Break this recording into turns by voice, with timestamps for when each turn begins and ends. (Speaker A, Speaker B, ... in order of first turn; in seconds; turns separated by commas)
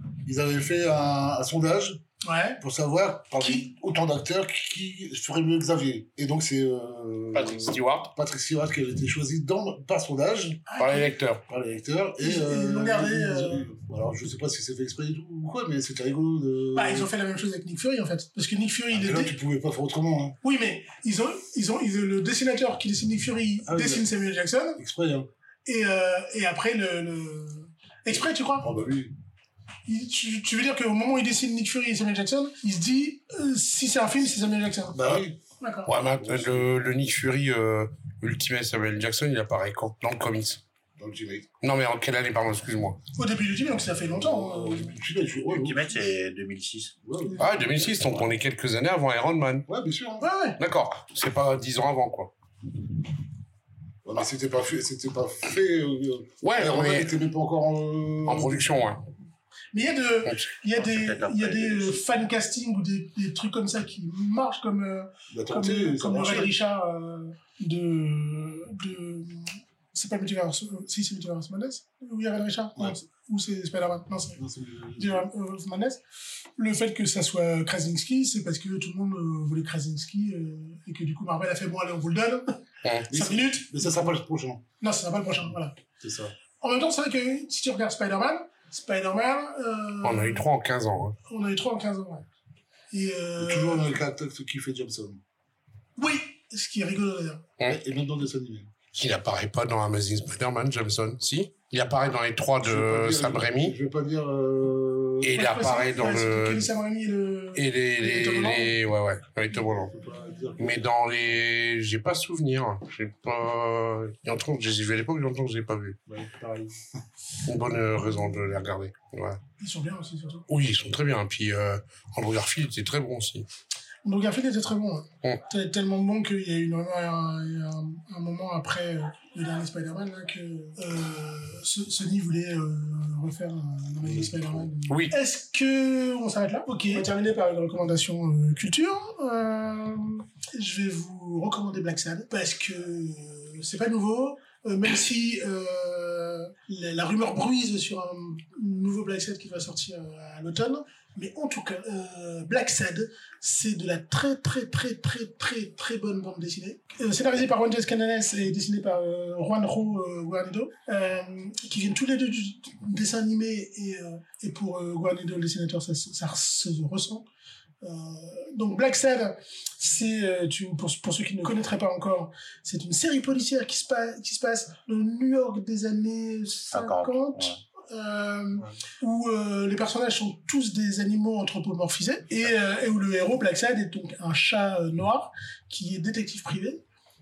Speaker A: 0.2-2.0, Speaker B: 2.2-2.6, Speaker A: 2.6-10.7, Speaker B: 3.4-3.7, Speaker C: 7.3-8.1, Speaker B: 10.7-11.1, Speaker C: 10.8-11.4, Speaker A: 11.5-17.1, Speaker B: 12.2-13.7, Speaker B: 16.7-19.3, Speaker A: 18.9-20.4, Speaker B: 20.4-24.8, Speaker A: 23.6-24.1, Speaker A: 24.8-25.3, Speaker B: 25.6-28.7, Speaker A: 28.6-29.1, Speaker B: 29.9-35.0, Speaker A: 34.9-35.4, Speaker B: 35.6-35.9, Speaker C: 35.9-40.6, Speaker A: 36.0-36.9, Speaker A: 41.0-41.5, Speaker C: 41.6-43.0, Speaker B: 43.2-45.0, Speaker A: 44.1-46.0, Speaker D: 45.5-47.0, Speaker A: 47.0-48.4, Speaker C: 47.4-49.7, Speaker A: 49.7-50.3, Speaker B: 50.2-50.6, Speaker C: 50.6-52.3, Speaker A: 54.0-58.8, Speaker C: 56.4-57.1, Speaker C: 58.3-59.0, Speaker B: 59.7-74.4, Speaker D: 60.7-62.1, Speaker A: 65.3-66.5, Speaker A: 74.4-75.3, Speaker B: 75.0-76.0, Speaker B: 76.6-83.8, Speaker C: 82.8-83.1, Speaker A: 83.1-84.6, Speaker B: 84.8-85.8, Speaker A: 86.0-86.3, Speaker B: 86.6-90.5, Speaker C: 90.0-91.2, Speaker B: 91.3-92.3, Speaker B: 92.9-94.0, Speaker A: 93.4-95.2, Speaker B: 96.0-97.4, Speaker A: 97.6-98.7, Speaker C: 98.9-103.7, Speaker A: 102.6-105.5, Speaker C: 105.2-106.7, Speaker B: 105.3-108.8, Speaker C: 107.5-109.9, Speaker A: 109.5-110.9, Speaker C: 110.6-116.0, Speaker A: 116.1-116.8, Speaker C: 117.4-119.4, Speaker B: 119.6-120.5, Speaker C: 120.5-123.5, Speaker B: 124.0-167.2, Speaker A: 134.0-134.7, Speaker C: 134.9-135.1, Speaker B: 167.8-186.8, Speaker D: 176.7-177.6